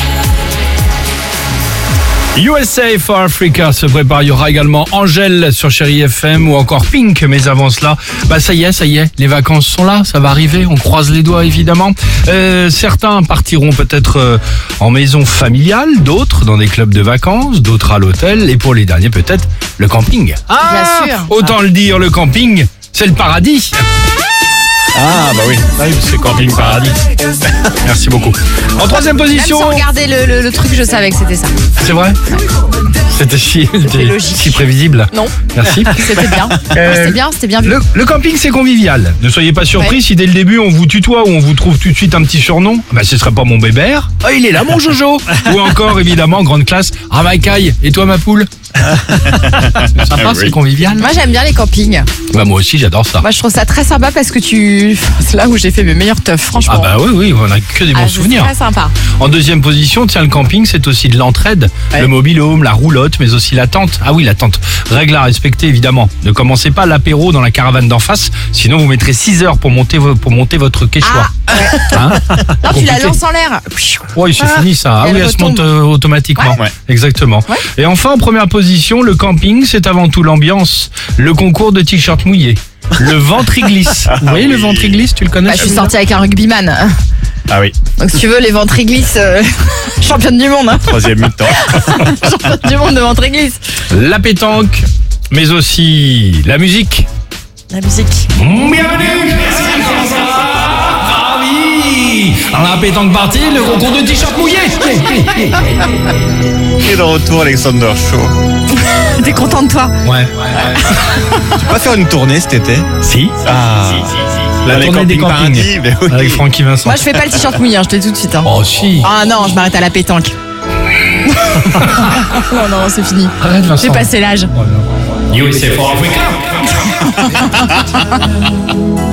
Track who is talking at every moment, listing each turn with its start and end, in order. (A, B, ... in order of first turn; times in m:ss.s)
0:02.3-0:23.8 A
0:20.6-0:21.3 B
0:24.9-0:25.6 C
0:25.7-0:27.0 A
0:26.3-0:26.9 C
0:27.8-0:29.8 A
0:29.3-0:31.5 B
0:31.8-0:32.2 A
0:33.0-0:36.1 A
0:33.8-0:35.4 B
0:35.9-0:37.8 B
0:36.7-0:51.1 A
0:50.1-0:50.5 C
0:50.9-0:52.1 B
0:52.3-0:53.2 A
0:53.2-0:56.9 B
0:56.6-0:58.5 A
0:57.9-0:58.9 B
0:59.1-1:11.3 A
1:11.0-1:15.7 B
1:11.8-1:13.2 A
1:14.1-1:25.9 A
1:16.4-1:16.7 C
1:24.1-1:25.0 C
1:25.5-1:26.9 B
1:27.5-1:27.8 C
1:28.0-1:33.6 B
1:30.8-1:31.8 C
1:33.9-1:37.1 A
1:37.7-1:38.3 B
1:38.3-1:45.8 A
1:46.8-1:48.3 C
1:48.7-1:49.9 B
1:50.0-1:50.4 A
1:50.8-1:51.5 B
1:51.5-1:52.9 C
1:53.0-1:53.4 A
1:53.4-1:56.4 C
1:54.6-1:57.0 A
1:56.8-2:00.3 B
1:58.4-1:59.1 A
2:01.2-2:04.5 B
2:01.8-2:02.1 A
2:03.4-2:06.9 A
2:07.1-2:07.6 B